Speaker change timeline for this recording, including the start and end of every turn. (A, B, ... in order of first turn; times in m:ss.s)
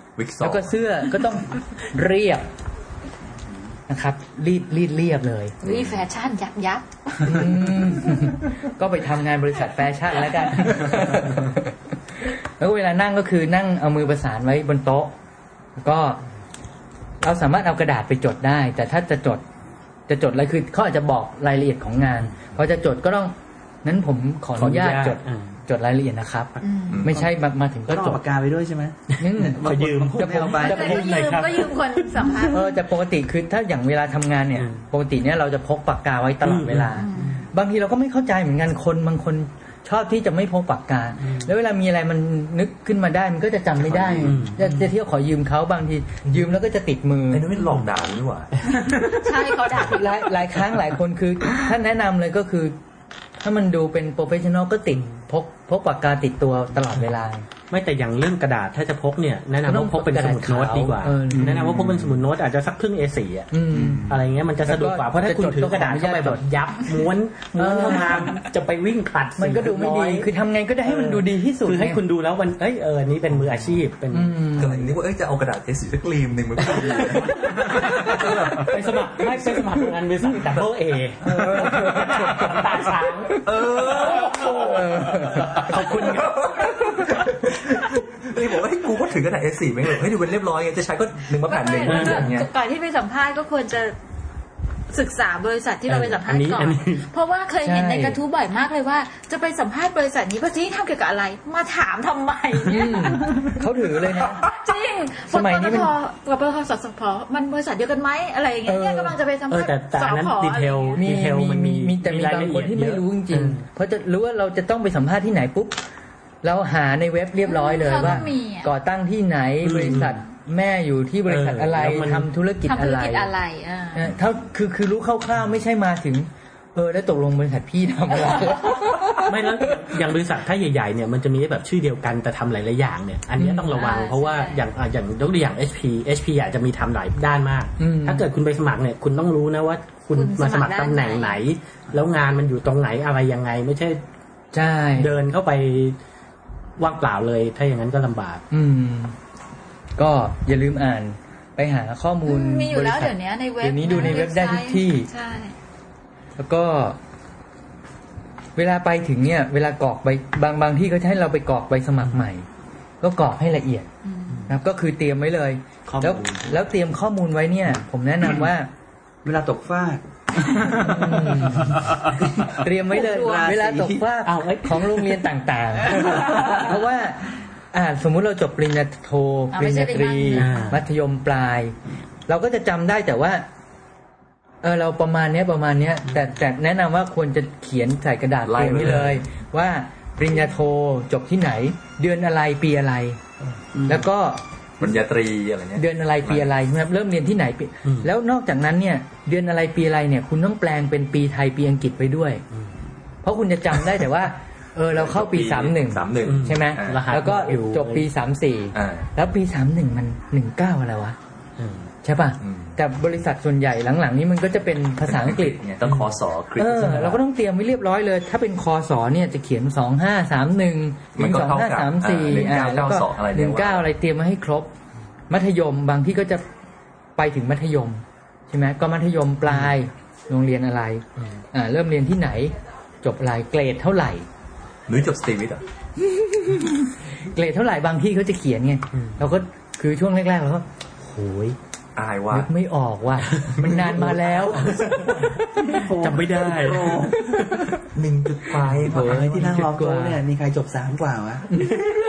0:00.2-0:00.7 A
0:00.4-0:02.4 B
0:03.9-0:05.6 B
0:05.6-0:07.5 C
0:05.6-0:06.0 A
0:07.2-0:11.7 B
0:12.3-0:15.1 B
0:15.8-0:16.2 B
0:17.2-0:19.4 B
0:20.1-0:28.2 B
0:24.5-0:25.5 D
0:26.6-0:27.0 C
0:26.9-0:27.2 A
0:27.9-0:31.1 E
0:29.1-0:32.5 D
0:29.2-0:29.6 B
0:30.2-0:30.6 B
0:30.6-0:32.6 C
0:32.5-0:47.5 B
0:34.5-0:34.8 D
0:36.4-0:37.2 D
0:37.0-0:37.4 C
0:41.2-0:41.5 D
0:43.9-0:44.4 A
0:44.2-0:44.6 D
0:47.3-0:48.5 A
0:48.9-0:50.3 C
0:49.8-0:52.8 B
0:53.4-0:57.5 B
0:57.7-1:10.3 D
0:59.6-1:01.7 B
1:01.4-1:02.1 A
1:03.5-1:06.4 B
1:07.5-1:08.4 B
1:09.4-1:12.0 B
1:10.8-1:14.9 D
1:14.1-1:14.7 B
1:14.6-1:18.8 A
1:16.7-1:26.6 D
1:20.3-1:20.6 A
1:21.2-1:22.6 A
1:21.4-1:22.0 B
1:23.3-1:32.5 A
1:24.6-1:25.5 B
1:31.4-1:33.9 C
1:31.8-1:32.3 D
1:34.9-1:43.6 C
1:35.9-1:37.1 D
1:37.6-1:38.2 B
1:42.7-1:44.4 B
1:44.3-1:51.0 C
1:45.3-1:45.9 B
1:48.6-1:49.2 B
1:49.5-1:53.6 D
1:51.0-1:55.8 B
1:56.4-2:03.3 B
1:57.4-1:58.7 C
1:59.6-2:00.2 D
2:01.2-2:02.3 D
2:02.7-2:04.0 C
2:03.9-2:09.8 B
2:09.2-2:24.0 D
2:13.4-2:13.8 B
2:13.7-2:14.6 C
2:17.8-2:18.2 B
2:20.1-2:21.4 C
2:24.5-2:25.1 B
2:24.9-2:26.0 D
2:26.8-2:28.4 D
2:28.5-2:29.2 B
2:30.0-2:35.1 B
2:32.2-2:35.5 C
2:36.4-2:37.0 B
2:38.6-2:42.4 B
2:43.0-2:43.9 B
2:44.0-2:44.5 C
2:44.5-2:48.7 B
2:45.9-2:46.3 E
2:49.2-2:51.6 E
2:50.8-2:51.8 B
2:52.4-2:54.1 E
2:52.4-3:01.8 B
2:53.0-2:53.5 C
2:54.2-2:55.2 D
2:59.5-3:00.7 C
3:00.4-3:00.8 D
3:02.3-3:03.4 B
3:04.6-3:13.2 B
3:08.4-3:09.2 A
3:13.8-3:14.4 B
3:14.8-3:16.5 A
3:15.8-3:22.4 B
3:23.2-3:31.2 B
3:24.9-3:27.1 A
3:26.2-3:28.1 D
3:28.7-3:29.1 A
3:31.6-3:31.9 D
3:32.0-3:35.6 B
3:32.4-3:32.7 A
3:35.0-3:37.2 A
3:35.8-3:36.1 D
3:36.6-3:44.7 B
3:41.2-3:43.9 A
3:45.3-3:46.4 B
3:47.2-3:54.3 B
3:49.4-3:49.7 D
3:54.9-3:55.6 A
3:56.4-3:56.7 B
3:57.3-4:01.6 B
3:58.9-3:59.2 D
4:02.0-4:02.5 A
4:02.3-4:05.2 B
4:05.7-4:07.1 E
4:05.9-4:07.2 D
4:06.5-4:09.6 A
4:08.8-4:11.5 E
4:08.9-4:10.2 B
4:11.5-4:11.8 B